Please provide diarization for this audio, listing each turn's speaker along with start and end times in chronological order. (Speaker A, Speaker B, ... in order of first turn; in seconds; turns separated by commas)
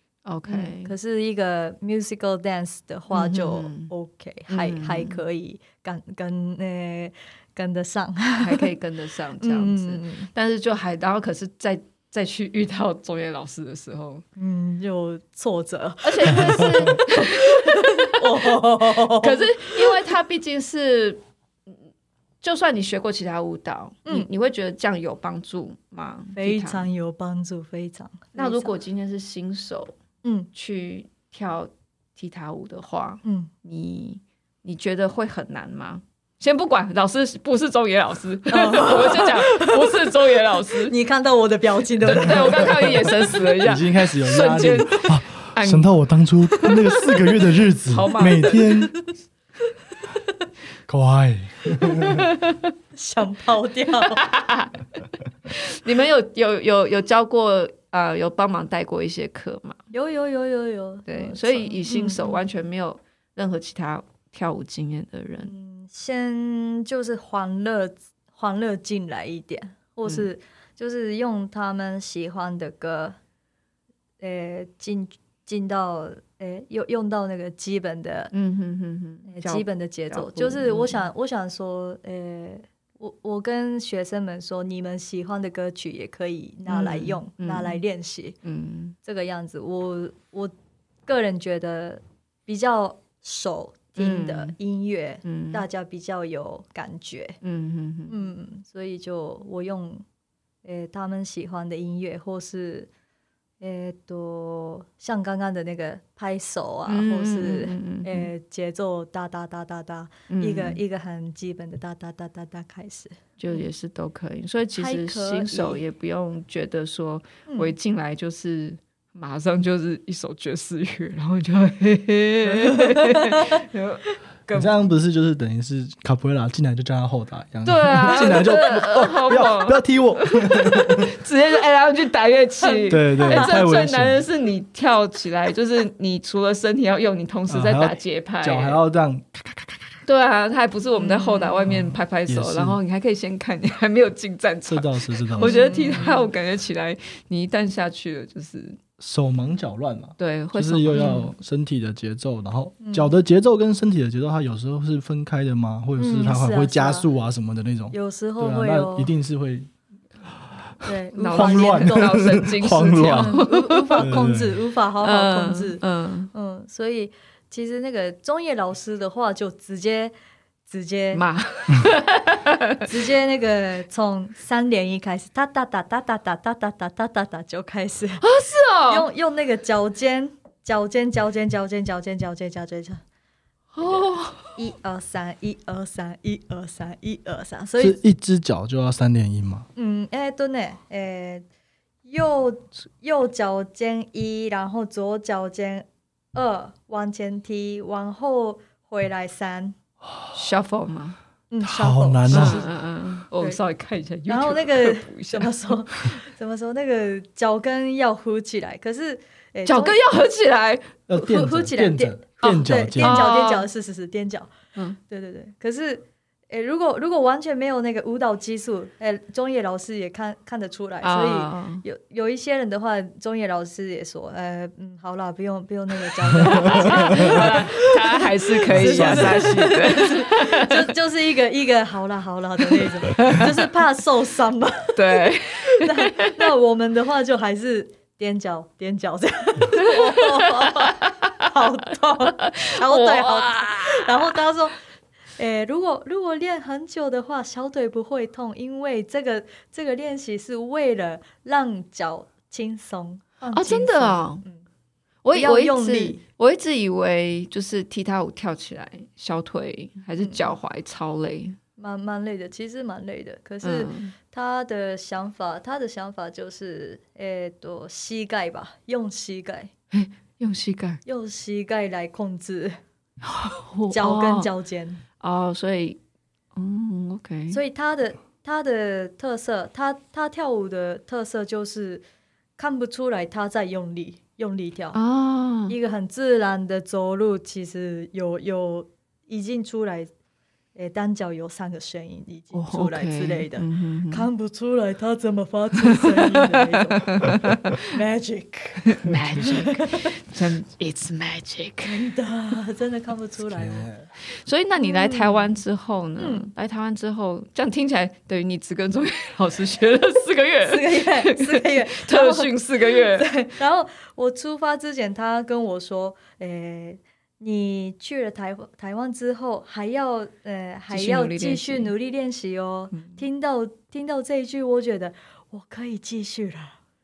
Speaker A: 0.2-0.9, Speaker B: 0.5-8.7, Speaker A: 3.1-3.9, Speaker A: 4.5-5.2, Speaker A: 8.4-14.2, Speaker B: 9.4-10.3, Speaker B: 14.4-20.0, Speaker A: 16.0-21.7, Speaker A: 22.4-26.9, Speaker B: 26.4-28.8, Speaker A: 28.4-30.0, Speaker B: 30.2-30.5, Speaker A: 30.5-40.9, Speaker B: 33.2-33.5, Speaker B: 38.5-40.0, Speaker B: 40.8-43.0, Speaker A: 42.0-45.9, Speaker C: 42.1-42.7, Speaker C: 43.6-48.9, Speaker A: 46.5-47.2, Speaker A: 47.9-48.7, Speaker C: 50.9-52.3, Speaker A: 52.0-52.7, Speaker B: 53.0-54.2, Speaker A: 54.0-59.8, Speaker B: 59.9-62.4, Speaker A: 61.1-65.5, Speaker B: 65.4-73.2, Speaker B: 74.2-78.3, Speaker A: 78.3-81.0, Speaker B: 79.3-88.4, Speaker A: 86.7-87.8, Speaker A: 88.4-89.0, Speaker B: 89.0-90.5, Speaker B: 91.1-97.4, Speaker A: 94.0-94.5, Speaker A: 95.2-95.7, Speaker A: 97.4-98.3, Speaker B: 98.1-100.0, Speaker B: 100.6-102.9, Speaker B: 103.6-113.6, Speaker A: 106.9-108.3, Speaker A: 110.3-110.8, Speaker A: 113.4-124.8, Speaker B: 114.8-115.8, Speaker B: 117.5-117.7, Speaker B: 122.5-123.6, Speaker C: 124.5-131.2, Speaker A: 127.7-138.8, Speaker B: 132.6-133.6, Speaker C: 132.9-134.2, Speaker C: 137.5-139.9, Speaker A: 140.1-148.8, Speaker B: 141.0-141.6, Speaker C: 141.7-142.8, Speaker C: 144.7-145.7, Speaker B: 145.4-146.3, Speaker C: 149.0-159.7, Speaker A: 150.2-151.3, Speaker B: 150.9-151.2, Speaker B: 152.8-153.1, Speaker B: 156.0-157.1, Speaker B: 157.9-159.1, Speaker B: 160.8-162.5, Speaker A: 161.2-164.2, Speaker C: 161.3-163.5, Speaker B: 163.1-170.1, Speaker C: 164.0-164.6, Speaker A: 165.0-166.3, Speaker B: 170.7-171.2, Speaker A: 171.1-172.9, Speaker B: 172.8-178.3, Speaker A: 178.2-179.1, Speaker B: 178.9-183.0, Speaker A: 183.8-184.6, Speaker B: 184.6-188.0, Speaker C: 187.8-189.7, Speaker B: 189.8-191.5, Speaker B: 192.1-199.8, Speaker A: 200.3-201.2, Speaker B: 201.5-202.8, Speaker C: 201.6-202.7, Speaker A: 202.3-205.5, Speaker B: 204.3-210.0, Speaker A: 209.7-211.0, Speaker C: 211.1-213.3, Speaker B: 211.2-214.5, Speaker A: 212.4-213.7, Speaker B: 215.1-244.8, Speaker A: 221.0-221.8, Speaker A: 226.4-230.9, Speaker C: 226.8-227.6, Speaker C: 228.7-229.7, Speaker A: 232.8-233.6, Speaker A: 235.0-236.5, Speaker A: 239.8-241.3, Speaker A: 242.3-244.4, Speaker B: 245.4-254.7, Speaker A: 253.5-254.4, Speaker A: 255.2-261.6, Speaker B: 255.3-256.2, Speaker B: 260.2-260.6, Speaker B: 261.8-269.7, Speaker A: 263.6-264.1, Speaker A: 269.9-271.0, Speaker B: 271.1-272.8, Speaker A: 273.2-274.5, Speaker B: 273.9-275.0, Speaker A: 275.2-276.0, Speaker A: 276.6-277.6, Speaker B: 277.5-282.0, Speaker B: 282.6-285.0, Speaker A: 284.9-285.8, Speaker B: 285.7-290.1, Speaker B: 290.8-300.1, Speaker A: 292.5-294.3, Speaker A: 295.9-297.9, Speaker A: 298.9-302.1, Speaker B: 301.9-303.9, Speaker C: 303.5-304.0, Speaker A: 304.4-313.3, Speaker B: 304.8-305.5, Speaker B: 306.2-306.5, Speaker B: 310.6-326.8, Speaker A: 320.9-321.9, Speaker A: 322.9-323.2